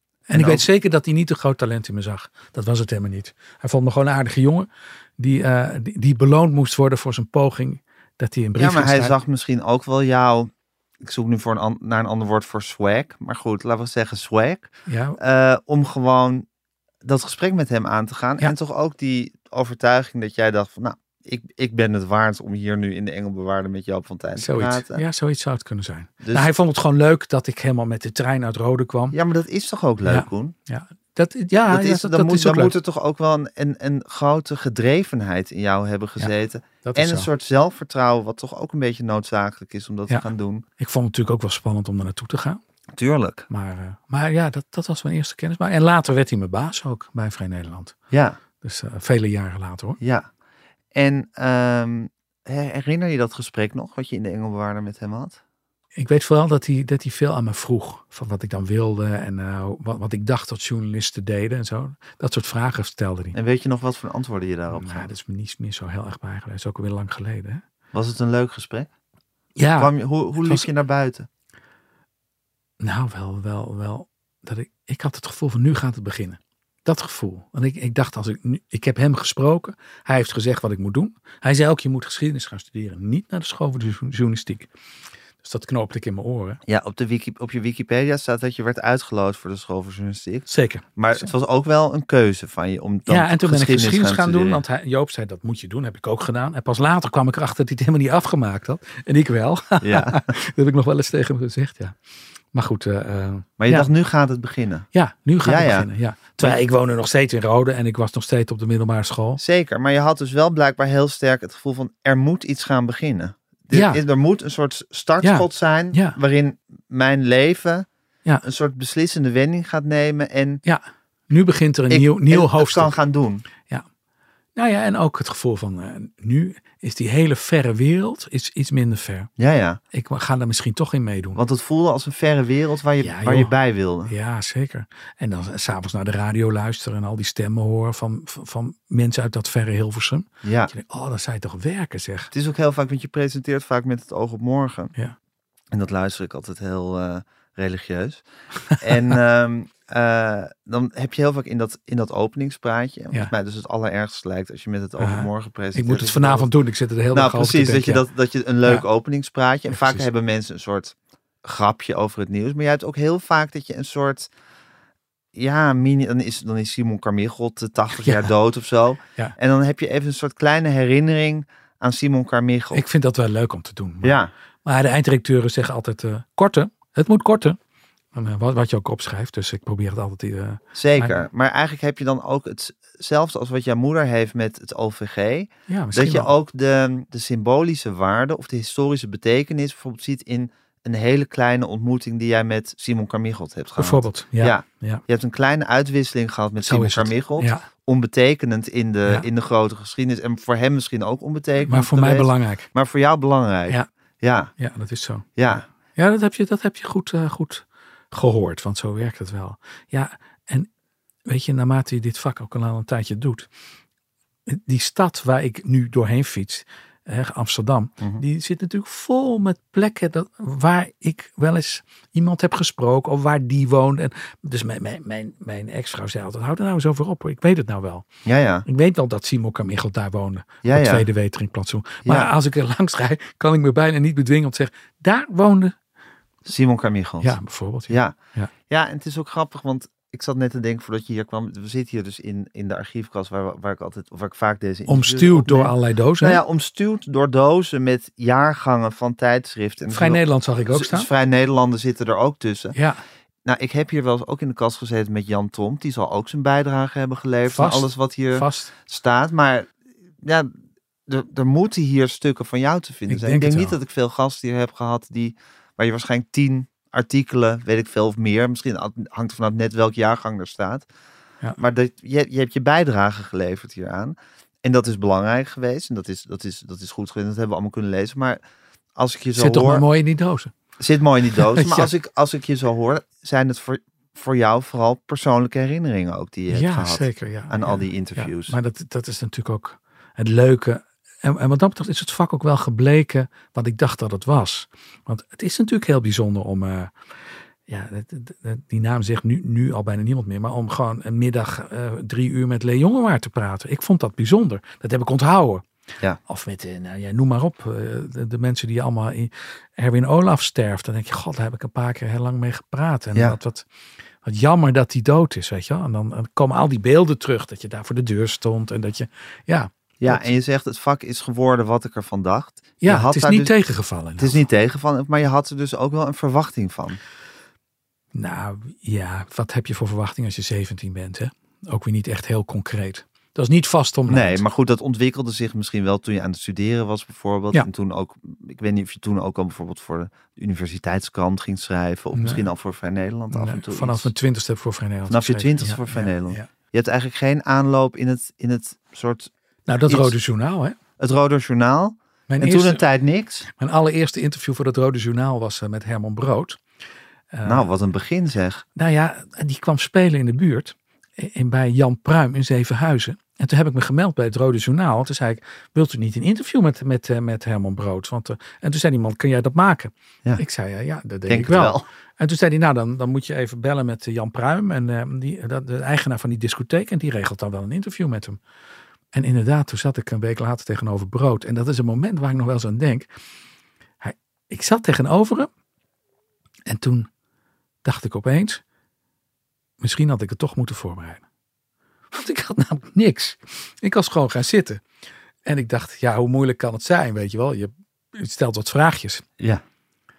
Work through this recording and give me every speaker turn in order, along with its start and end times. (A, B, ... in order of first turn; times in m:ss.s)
0:00.3-0:09.2 A
0:00.3-0:00.7 B
0:08.6-0:10.5 B
0:11.0-0:16.4 B
0:14.9-0:15.2 A
0:17.0-0:25.0 B
0:24.4-0:29.2 A
0:26.2-0:26.5 B
0:29.1-0:30.5 B
0:30.0-0:32.7 A
0:31.7-0:40.6 B
0:36.2-0:37.3 A
0:40.8-0:42.6 A
0:43.0-0:43.4 B
0:43.5-0:48.0 A
0:48.1-0:48.4 B
0:48.6-0:50.0 A
0:50.0-0:50.3 B
0:50.9-0:55.4 B
0:55.9-1:03.4 A
1:03.3-1:05.1 B
1:04.7-1:07.6 A
1:07.9-1:08.9 B
1:09.6-1:10.7 A
1:09.8-1:11.3 B
1:12.8-1:24.7 A
1:25.4-1:26.6 A
1:26.7-1:34.6 B
1:30.5-1:30.8 A
1:33.1-1:42.0 A
1:39.8-1:40.3 B
1:42.5-1:43.9 A
1:43.6-1:44.9 B
1:44.9-1:49.4 A
1:45.4-1:45.9 B
1:49.4-1:57.8 B
1:53.7-1:54.0 A
1:55.2-1:56.2 A
1:58.4-2:00.6 B
2:00.6-2:02.9 A
2:01.9-2:03.4 B
2:04.6-2:09.3 A
2:09.4-2:09.8 B
2:09.9-2:11.4 A
2:11.3-2:14.1 B
2:13.0-2:13.5 A
2:14.1-2:22.3 A
2:20.4-2:20.7 B
2:22.3-2:24.9 B
2:25.7-2:28.2 B
2:28.8-2:36.5 B
2:28.9-2:29.1 A
2:35.0-2:38.0 A
2:37.1-2:44.3 B
2:39.7-2:40.0 A
2:45.3-2:52.8 B
2:47.9-2:48.3 A
2:49.0-2:49.4 A
2:52.7-2:57.6 A
2:54.0-2:54.3 B
2:58.1-3:01.2 A
3:00.7-3:24.5 B
3:05.7-3:06.3 A
3:13.8-3:15.0 A
3:16.6-3:17.6 A
3:21.6-3:22.7 A
3:24.6-3:30.7 A
3:25.4-3:25.6 B
3:31.2-3:33.5 A
3:34.4-3:48.0 A
3:48.2-3:48.6 B
3:48.6-3:55.8 A
3:50.6-3:51.0 B
3:52.0-3:52.3 B
3:56.4-3:57.4 B
3:57.2-3:58.5 A
3:57.9-3:58.1 B
3:58.7-4:12.7 B
4:04.9-4:06.4 A
4:09.9-4:11.1 A
4:12.7-4:13.0 A
4:13.4-4:19.7 B
4:17.5-4:18.7 A
4:20.2-4:20.5 B
4:21.1-4:30.8 B
4:23.1-4:23.8 A
4:31.6-4:38.4 B
4:39.0-4:39.8 B
4:39.3-4:40.5 A
4:40.8-4:48.6 B
4:41.3-4:41.9 A
4:46.5-4:56.9 A
4:57.7-5:05.6 A
5:06.2-5:13.6 A
5:14.2-5:20.3 A
5:20.0-5:23.5 B
5:22.8-5:24.4 A
5:24.2-5:27.0 B
5:28.1-5:34.4 A
5:34.1-5:44.1 B
5:42.1-5:42.5 A
5:43.3-5:46.5 A
5:45.1-5:49.3 B
5:49.7-5:50.8 A
5:49.8-5:50.1 B
5:51.0-5:53.5 B
5:52.3-5:52.8 A
5:53.5-5:56.6 A
5:57.3-5:57.7 A
5:57.4-5:58.6 B
5:58.8-6:18.4 A
6:11.3-6:11.8 B
6:19.1-6:23.1 A
6:24.0-6:25.5 A
6:26.6-6:27.1 A
6:27.8-6:28.6 A
6:29.8-6:31.2 A
6:32.1-6:34.8 A
6:35.4-6:39.2 A